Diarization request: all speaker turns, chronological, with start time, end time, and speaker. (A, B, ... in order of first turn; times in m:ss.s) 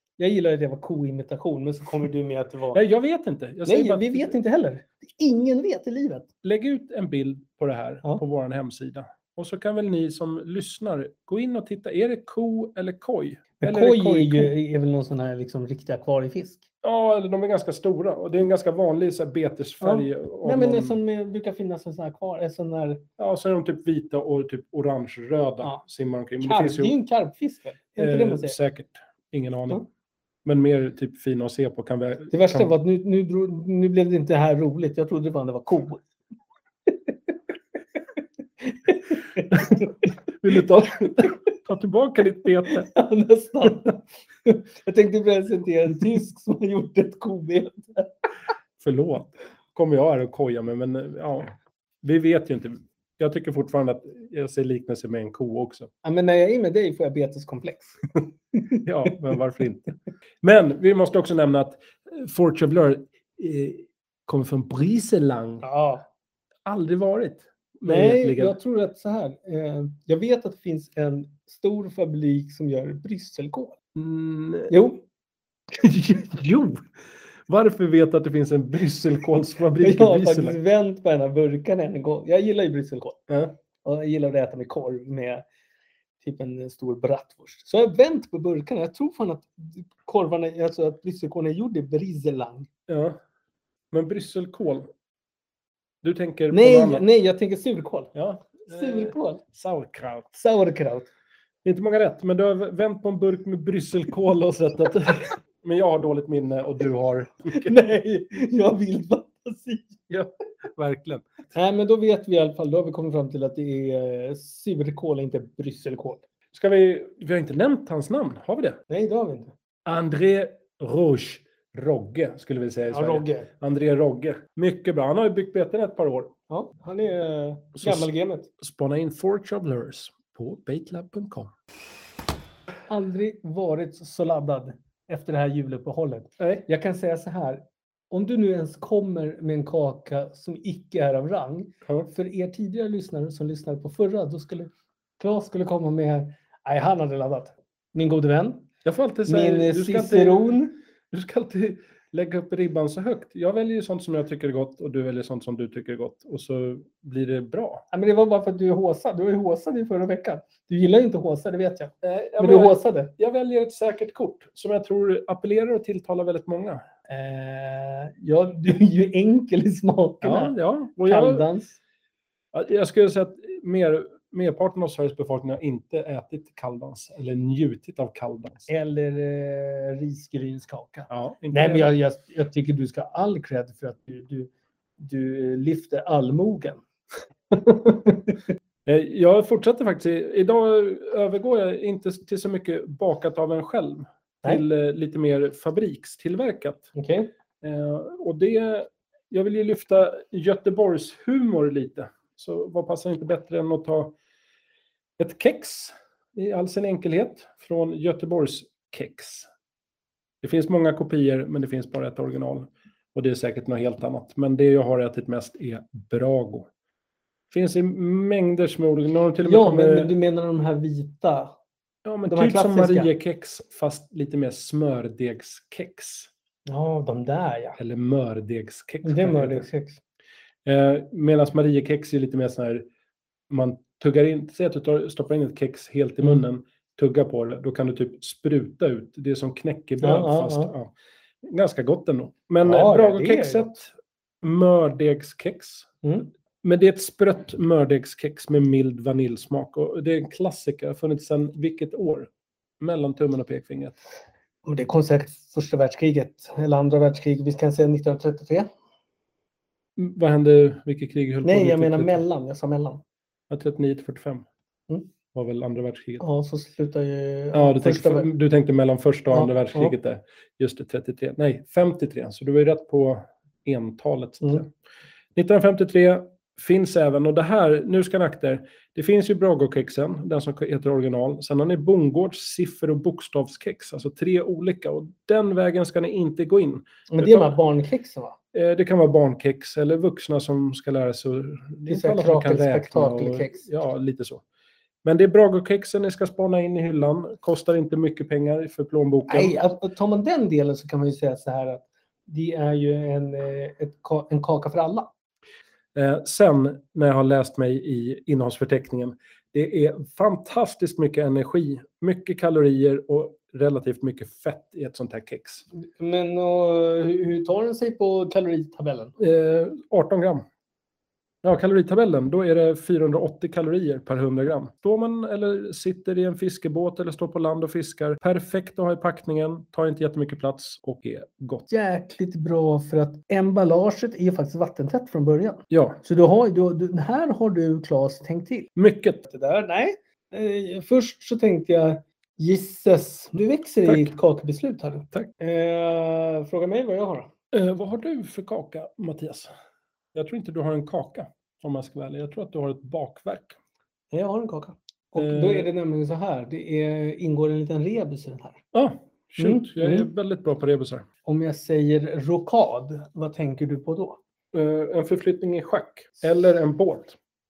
0:00.2-0:02.8 A
0:02.7-0:04.4 B
0:03.6-0:06.3 A
0:06.4-0:14.5 B
0:13.6-0:16.6 A
0:16.8-0:21.0 B
0:19.8-0:23.0 A
0:23.2-0:26.9 B
0:26.4-0:28.6 A
0:28.0-0:29.8 B
0:30.4-0:32.7 B
0:32.3-0:36.0 A
0:38.6-0:39.9 A
0:39.5-0:39.9 B
0:40.4-0:42.9 B
0:42.9-0:48.1 A
0:48.8-0:51.5 B
0:52.0-0:55.9 B
0:56.0-0:58.0 A
0:58.8-1:05.6 B
1:05.6-1:06.0 A
1:06.6-1:08.5 B
1:07.8-1:13.8 A
1:13.9-1:14.7 B
1:14.7-1:15.0 A
1:15.7-1:16.9 B
1:17.5-1:20.6 B
1:19.8-1:23.2 A
1:23.3-1:23.6 B
1:23.8-1:25.4 A
1:26.2-1:32.7 A
1:32.9-1:33.2 B
1:33.9-1:34.9 B
1:36.0-1:37.0 B
1:36.5-1:39.4 A
1:38.1-1:40.4 B
1:40.4-1:41.1 A
1:41.6-1:47.7 B
1:47.5-1:50.1 A
1:50.1-1:51.3 B
1:51.5-1:56.2 A
1:56.5-1:58.8 B
1:58.9-1:59.5 A
1:59.8-2:06.3 B
2:02.9-2:03.5 A
2:06.5-2:08.5 A
2:07.8-2:08.1 B
2:08.6-2:11.5 B
2:12.9-2:28.7 A
2:16.4-2:16.6 B
2:28.8-2:30.6 B
2:29.3-2:30.8 A
2:31.1-2:37.8 B
2:37.9-2:43.1 A
2:42.0-2:46.8 B
2:47.1-2:51.8 A
2:50.2-2:51.4 B
2:52.5-2:58.7 B
2:58.7-3:06.8 A
3:01.1-3:01.9 B
3:08.8-3:16.9 B
3:16.9-3:17.3 A
3:17.6-3:24.2 B
3:25.2-3:29.5 B
3:30.4-3:36.7 B
3:37.5-3:40.1 B
3:39.4-3:41.5 A
3:42.0-3:46.3 B
3:42.3-3:43.1 A
3:46.7-3:47.8 A
3:47.8-3:49.7 B
3:49.0-3:50.0 A
3:50.6-3:52.9 B
3:53.5-4:00.9 B
4:00.0-4:00.7 A
4:01.4-4:05.9 B
4:02.6-4:03.7 A
4:06.0-4:06.3 A
4:06.6-4:12.3 B
4:12.8-4:14.0 B
4:14.6-4:18.7 A
4:20.0-4:22.2 B
4:21.4-4:23.0 A
4:23.5-4:24.5 B
4:25.3-4:26.2 B
4:26.2-4:28.3 A
4:27.5-4:34.7 B
4:29.3-4:29.9 A
4:35.3-4:47.5 B
4:47.1-4:48.3 A
4:48.5-4:54.4 B
4:51.9-4:53.6 A
4:55.0-4:59.6 B
4:59.3-5:05.1 A
5:05.9-5:15.6 B
5:15.8-5:19.1 A
5:19.2-5:20.4 B
5:21.4-5:31.7 B
5:31.7-5:38.7 A
5:35.7-5:36.0 B
5:38.8-5:39.2 B
5:39.3-5:47.3 A
5:43.9-5:44.1 B
5:47.5-5:49.5 B
5:50.1-5:53.6 B
5:54.1-5:58.6 A
5:55.2-5:55.7 B
5:58.7-6:01.1 B
5:59.4-6:00.1 A
6:01.2-6:04.2 A
6:04.5-6:07.2 B